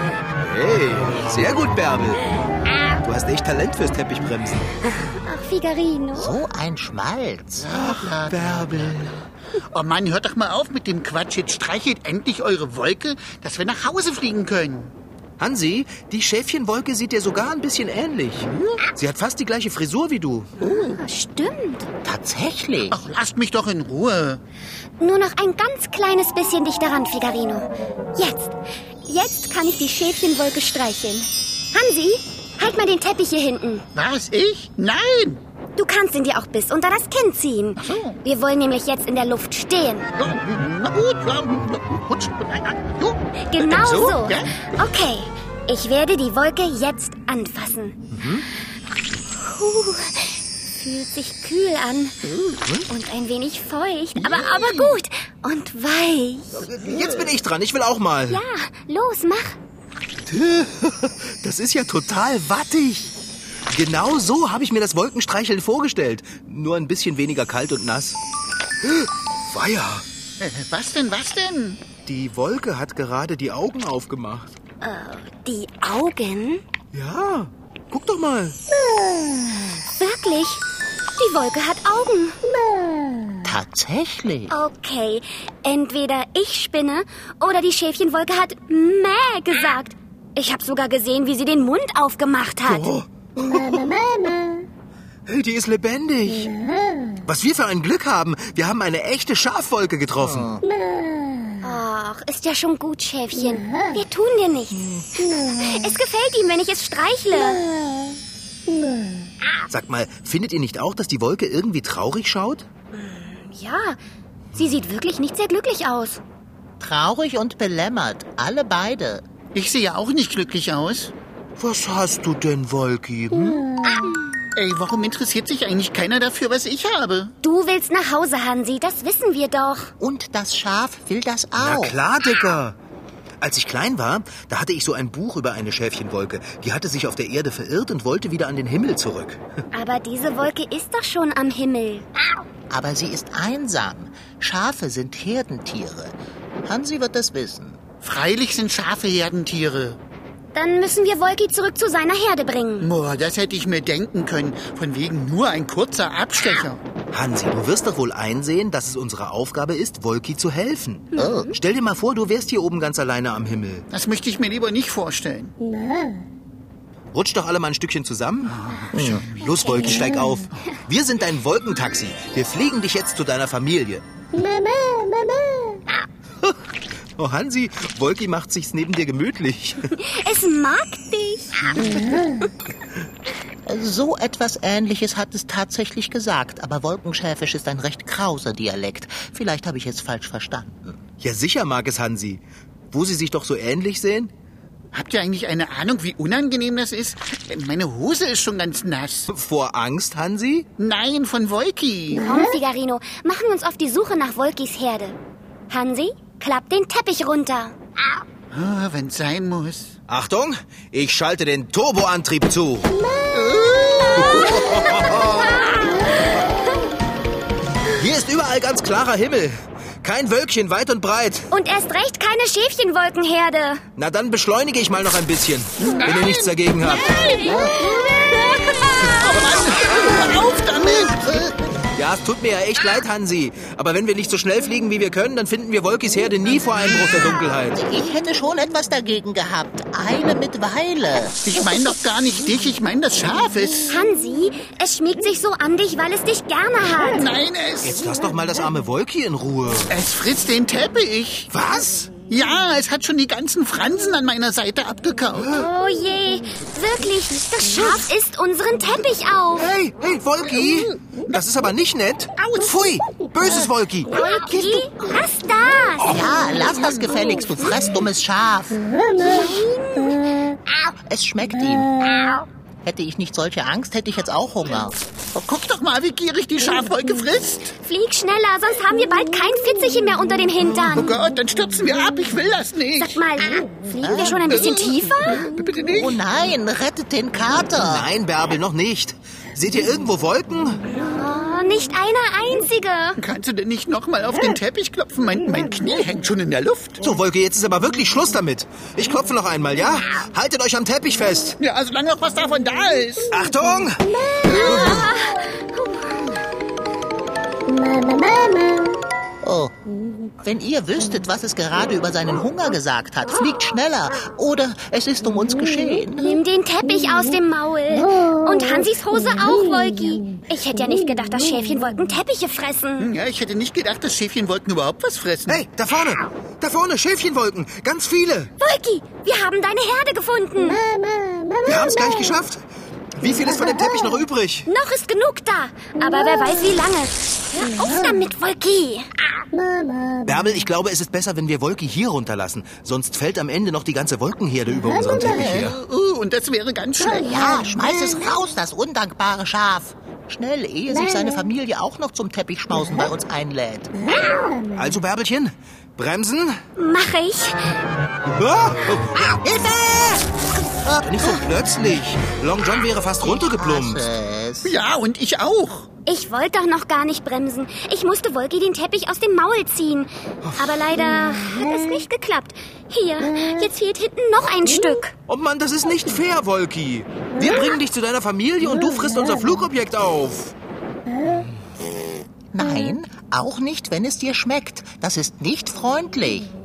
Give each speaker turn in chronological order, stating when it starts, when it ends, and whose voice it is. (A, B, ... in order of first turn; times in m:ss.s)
0:00.4-0:02.2 A
0:03.0-0:04.9 A
0:05.2-0:06.4 B
0:06.1-0:08.3 C
0:07.6-0:14.9 D
0:15.4-0:20.5 A
0:18.4-0:18.8 D
0:20.6-0:21.9 B
0:22.0-0:23.0 C
0:22.9-0:24.4 D
0:25.0-0:33.8 B
0:33.9-0:35.4 D
0:35.8-0:40.1 B
0:37.8-0:38.2 D
0:40.2-0:44.6 D
0:43.5-0:48.0 B
0:48.1-0:48.4 A
0:49.3-0:52.2 B
0:52.9-0:56.6 B
0:54.2-0:54.9 D
0:56.7-0:57.1 D
0:56.7-0:58.4 A
0:58.3-0:59.6 B
1:00.3-1:03.1 A
1:03.7-1:08.2 A
1:08.8-1:10.0 A
1:10.4-1:11.8 D
1:12.0-1:14.5 A
1:14.8-1:16.6 B
1:16.9-1:18.6 A
1:20.0-1:20.6 B
1:21.2-1:22.4 B
1:23.4-1:24.5 C
1:24.5-1:32.9 B
1:32.6-1:34.1 A
1:35.3-1:36.5 A
1:37.2-1:40.5 A
1:40.2-1:40.6 C
1:41.6-1:47.6 B
1:44.8-1:45.1 A
1:49.7-1:52.6 A
1:52.9-1:54.0 B
1:54.5-1:56.2 B
1:56.8-1:59.2 C
1:59.5-2:01.1 D
2:01.6-2:03.6 A
2:04.6-2:07.3 D
2:07.4-2:09.9 B
2:10.0-2:12.0 C
2:11.6-2:12.8 A
2:13.4-2:19.4 A
2:19.7-2:22.0 B
2:22.7-2:26.1 C
2:26.6-2:27.8 C
2:28.0-2:30.0 D
2:30.5-2:32.9 B
2:32.8-2:36.8 D
2:37.1-2:43.8 A
2:41.1-2:41.5 B
2:41.2-2:41.6 C
2:43.9-2:45.5 D
2:47.1-2:48.6 A
2:48.5-2:49.4 D
2:48.9-2:49.2 C
2:49.1-2:54.0 A
2:57.2-2:59.9 A
2:59.9-3:01.7 B
3:03.6-3:11.0 C
3:11.2-3:14.3 A
3:14.9-3:19.3 D
3:19.3-3:20.7 A
3:20.8-3:22.2 D
3:22.2-3:25.2 B
3:25.7-3:27.8 B
3:28.5-3:29.9 D
3:30.1-3:32.9 A
3:33.3-3:34.6 D
3:34.2-3:35.7 A
3:35.5-3:36.3 B
3:37.9-3:41.5 A
3:41.5-3:43.8 B
3:44.0-3:47.2 A
3:45.8-3:51.4 D
3:47.5-3:47.9 C
3:51.0-3:51.6 C
3:51.9-3:57.8 A
3:57.7-4:01.4 C
4:01.4-4:03.9 D
4:03.9-4:07.2 B
4:07.1-4:08.0 D
4:07.8-4:09.9 A
4:09.9-4:11.5 D
4:11.5-4:12.1 A
4:12.2-4:15.6 D
4:15.4-4:15.6 A
4:15.5-4:19.7 B
4:19.6-4:24.1 A
4:22.4-4:22.7 D
4:24.1-4:26.2 B
4:24.2-4:24.5 D
4:26.0-4:28.8 C
4:29.2-4:30.2 B
4:31.0-4:32.2 C
4:32.8-4:35.0 C
4:35.3-4:37.7 D
4:37.8-4:41.1 B
4:40.9-4:43.2 D
4:43.0-4:45.4 B
4:44.0-4:44.6 C
4:44.5-4:46.2 D
4:45.9-4:48.1 C
4:47.8-4:50.8 A
4:50.9-4:53.2 B
4:53.2-4:57.0 D
4:57.0-5:01.6 A
5:01.6-5:03.3 D
5:03.3-5:04.0 A
5:04.4-5:06.4 B
5:04.6-5:05.0 D
5:09.4-5:09.7 C
5:10.4-5:16.4 C
5:16.2-5:23.1 B
5:23.0-5:25.6 D
5:25.5-5:28.5 A
5:28.6-5:30.8 B
5:31.6-5:32.6 A
5:33.2-5:34.6 A
5:34.6-5:39.1 B
5:40.2-5:45.8 A
5:45.2-5:45.7 C
5:45.5-5:47.6 D
5:47.1-5:53.9 C
5:54.7-5:56.6 A
5:56.8-5:57.7 B
5:58.2-5:59.4 A
5:59.4-6:00.3 C
6:00.8-6:01.3 C
6:01.0-6:04.0 A
6:03.2-6:04.7 C
6:04.6-6:05.9 D
6:06.0-6:15.1 B
6:10.4-6:10.8 A
6:15.3-6:20.5 A
6:21.2-6:21.5 A
6:22.5-6:26.5 C